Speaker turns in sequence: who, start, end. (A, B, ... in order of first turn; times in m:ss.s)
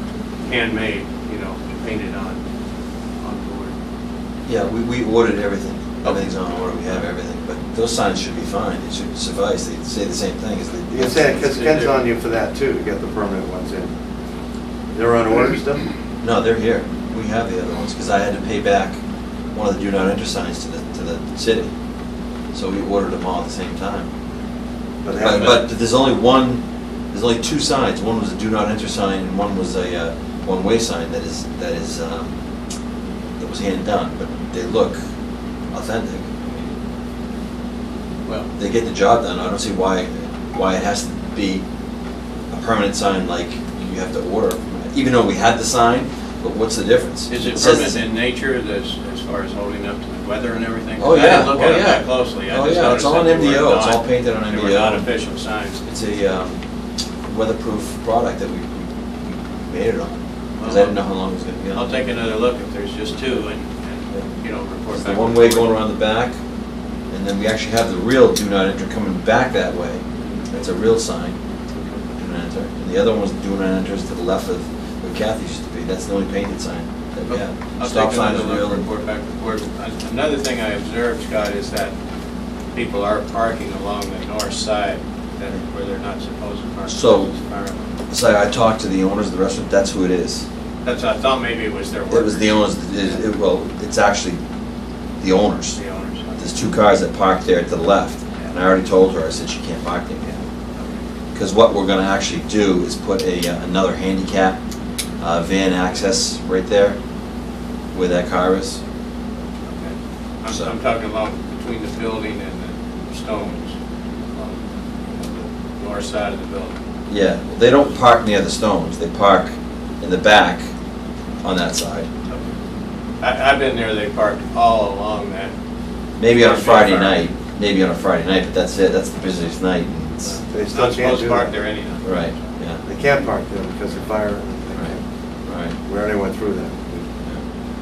0:00.4-0:02.4 A
0:03.2-0:03.8 A
0:04.5-0:11.5 B
0:06.0-0:06.4 A
0:10.9-0:13.9 C
0:11.3-0:11.9 A
0:14.9-0:15.9 C
0:16.2-0:19.0 B
0:19.5-0:21.7 B
0:22.5-0:24.1 B
0:25.0-0:25.6 C
0:25.2-0:25.6 A
0:25.2-0:32.3 B
0:33.4-0:35.0 B
0:35.7-0:36.7 B
0:38.6-0:41.6 B
0:42.5-0:48.0 B
0:47.3-0:55.8 A
0:51.0-0:55.1 B
0:55.8-0:56.6 B
0:57.2-1:01.9 B
1:00.6-1:01.0 A
1:01.7-1:05.7 A
1:04.9-1:06.4 B
1:07.1-1:11.4 B
1:10.2-1:10.5 A
1:11.7-1:12.0 A
1:12.1-1:18.9 B
1:17.3-1:21.9 A
1:22.7-1:27.9 A
1:26.9-1:27.3 B
1:28.1-1:30.4 B
1:30.8-1:33.2 A
1:32.1-1:34.4 B
1:35.2-1:35.8 B
1:35.7-1:36.5 A
1:36.3-1:40.3 B
1:40.2-1:41.0 A
1:41.3-1:44.6 B
1:45.2-1:47.0 B
1:47.9-1:48.8 B
1:49.6-1:53.8 A
1:50.5-1:50.8 B
1:54.3-1:56.8 A
1:57.1-2:00.7 B
2:01.4-2:02.1 B
2:03.2-2:05.5 A
2:06.2-2:10.4 B
2:06.3-2:07.2 A
2:10.2-2:12.4 A
2:10.5-2:11.5 C
2:12.0-2:12.8 B
2:12.8-2:15.0 C
2:15.5-2:15.8 B
2:15.8-2:17.0 C